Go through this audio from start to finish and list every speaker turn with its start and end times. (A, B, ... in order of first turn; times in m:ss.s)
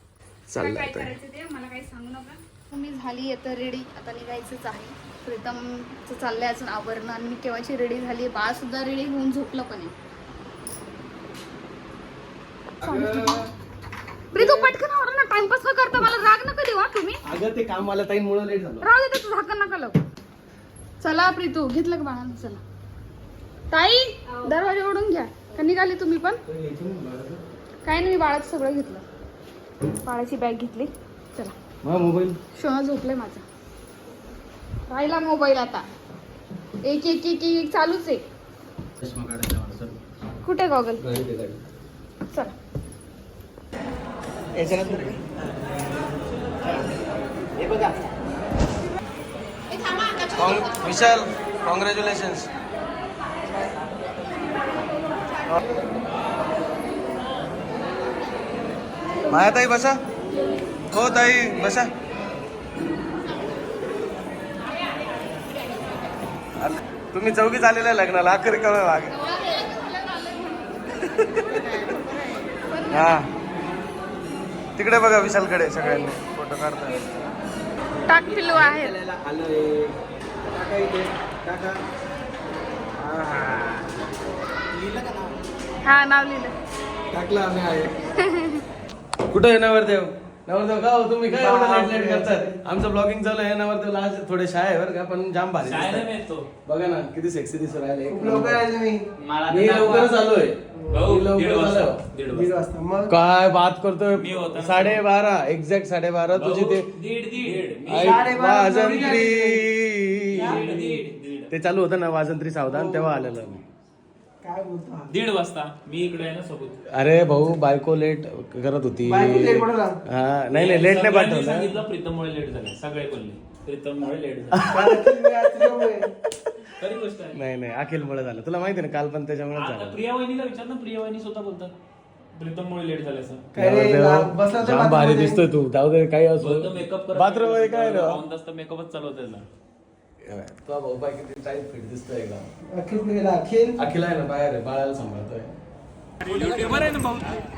0:00.5-0:01.1 A
0:00.6-0:09.9 B
0:12.8-0:13.4 B
0:12.8-0:13.5 A
0:14.3-0:17.2 B
0:14.3-0:14.8 A
0:17.2-0:18.9 A
0:18.8-0:20.0 B
0:21.0-0:22.6 B
0:23.7-0:26.4 B
0:26.5-0:27.4 A
0:27.8-0:29.0 B
0:30.0-0:31.6 B
0:31.8-0:32.4 A
0:32.5-0:33.4 B
0:34.9-0:35.9 B
0:36.8-0:38.2 B
0:39.0-0:40.0 A
0:40.4-0:41.0 B
0:41.0-0:41.6 A
0:42.3-0:42.5 B
0:44.6-0:45.3 A
0:47.6-0:47.9 A
0:50.3-0:52.5 A
0:59.3-1:00.0 A
1:00.9-1:01.9 A
1:06.6-1:09.2 A
1:09.2-1:10.7 B
1:11.0-1:11.6 A
1:11.6-1:12.2 C
1:12.7-1:13.1 B
1:12.9-1:13.3 A
1:14.8-1:17.2 A
1:18.0-1:19.0 B
1:18.3-1:19.9 A
1:20.5-1:21.8 A
1:23.0-1:23.9 A
1:25.8-1:26.6 B
1:27.1-1:28.0 A
1:28.1-1:28.6 B
1:29.3-1:36.1 A
1:31.3-1:32.5 C
1:35.6-1:36.5 D
1:36.6-1:38.7 A
1:38.1-1:39.0 C
1:39.2-1:40.2 D
1:39.5-1:42.0 A
1:40.9-1:42.5 D
1:42.3-1:43.1 C
1:43.1-1:46.9 A
1:44.1-1:45.0 D
1:46.3-1:48.4 D
1:47.9-1:50.8 A
1:47.9-1:49.6 C
1:50.3-1:51.5 D
1:50.4-1:51.0 C
1:51.5-1:53.6 A
1:52.7-1:53.3 C
1:54.4-1:55.1 C
1:55.1-1:56.8 D
1:56.9-2:01.8 A
1:59.0-2:00.0 C
2:00.5-2:04.7 D
2:04.5-2:05.1 A
2:04.7-2:06.1 C
2:06.7-2:07.4 D
2:07.3-2:10.0 A
2:09.5-2:11.7 D
2:12.4-2:13.4 D
2:13.5-2:15.4 C
2:13.5-2:18.2 A
2:16.4-2:19.5 D
2:20.2-2:22.5 A
2:22.7-2:23.8 C
2:23.8-2:25.5 A
2:26.2-2:27.4 D